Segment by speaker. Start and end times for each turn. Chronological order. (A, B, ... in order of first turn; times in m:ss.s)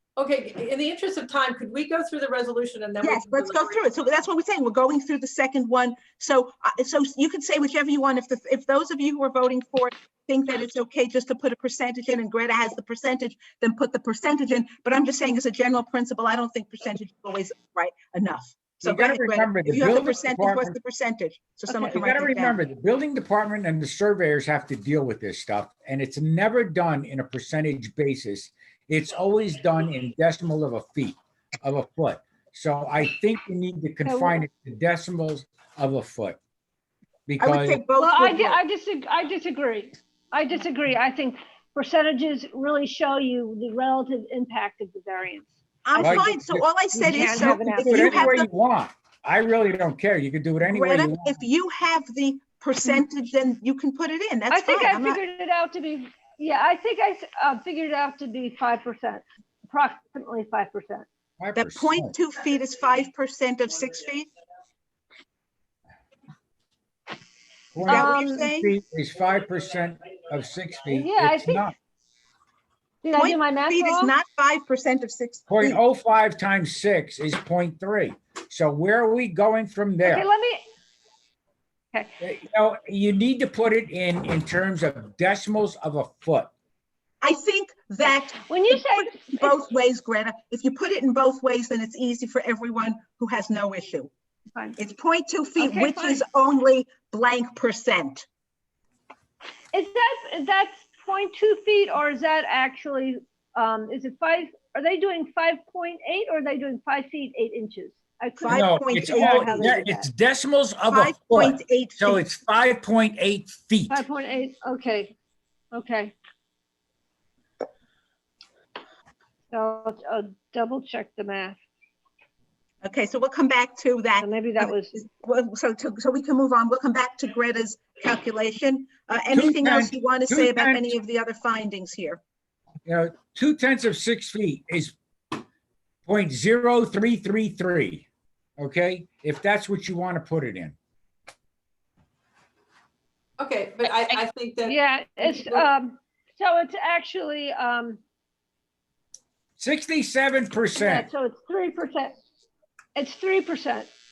0:00.2-0:03.9 A
0:03.0-0:22.6 B
0:18.8-0:20.8 C
0:21.7-0:22.0 D
0:21.9-0:36.4 C
0:34.0-0:34.4 D
0:37.3-0:37.8 C
0:37.4-0:38.6 B
0:38.0-0:46.2 D
0:45.8-0:48.5 B
0:46.0-0:51.4 C
0:46.9-0:48.3 D
0:50.6-0:55.2 B
0:54.5-1:01.0 D
1:01.4-1:02.1 C
1:01.6-1:04.3 B
1:07.7-1:11.8 C
1:07.9-1:08.5 D
1:07.9-1:08.7 B
1:10.9-1:11.7 D
1:13.0-1:14.1 D
1:13.1-1:15.8 B
1:15.5-1:20.3 C
1:20.0-1:20.6 D
1:22.2-1:26.5 C
1:27.2-1:34.1 B
1:28.5-1:29.6 D
1:34.8-1:38.3 B
1:35.6-1:36.2 D
1:39.7-1:50.1 D
1:48.4-1:49.8 B
1:48.5-1:54.0 C
1:50.9-1:52.2 B
1:53.9-1:55.1 D
1:55.7-1:56.2 D
1:59.5-2:01.6 D
2:02.8-2:12.2 B
2:04.2-2:05.0 D
2:09.3-2:10.9 C
2:12.9-2:15.0 C
2:16.1-2:18.1 C
2:18.6-2:20.8 C
2:23.4-2:25.6 A
2:24.7-2:28.0 D
2:29.6-2:31.1 C
2:30.8-2:32.2 D
2:33.0-2:33.9 D